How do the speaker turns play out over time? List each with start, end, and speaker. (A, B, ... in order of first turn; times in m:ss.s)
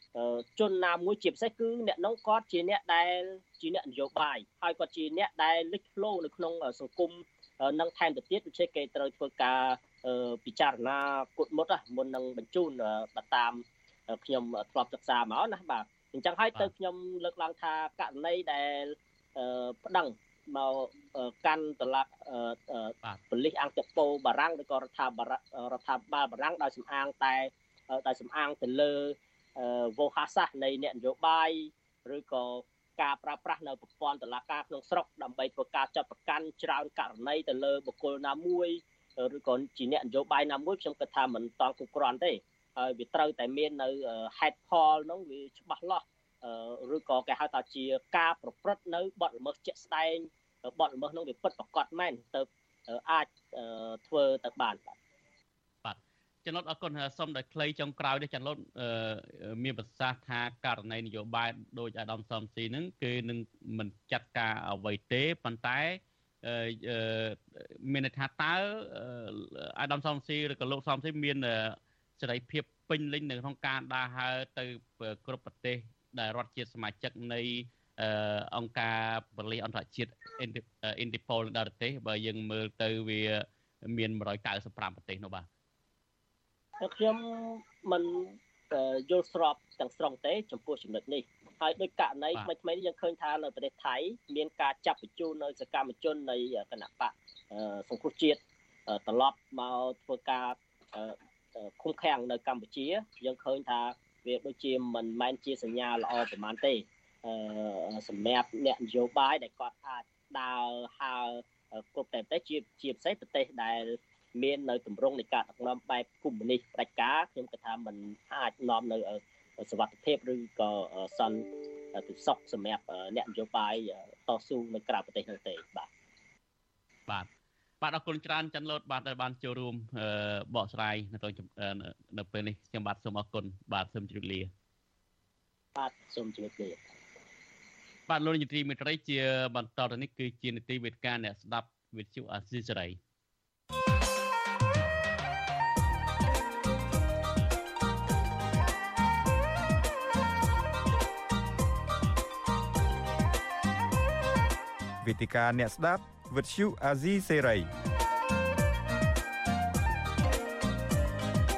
0:00.1-0:54.9 A
0:55.8-1:25.5 B
1:26.8-2:05.9 A
2:07.8-2:14.5 B
2:15.8-2:16.8 A
2:18.1-2:23.0 B
2:35.0-2:37.7 C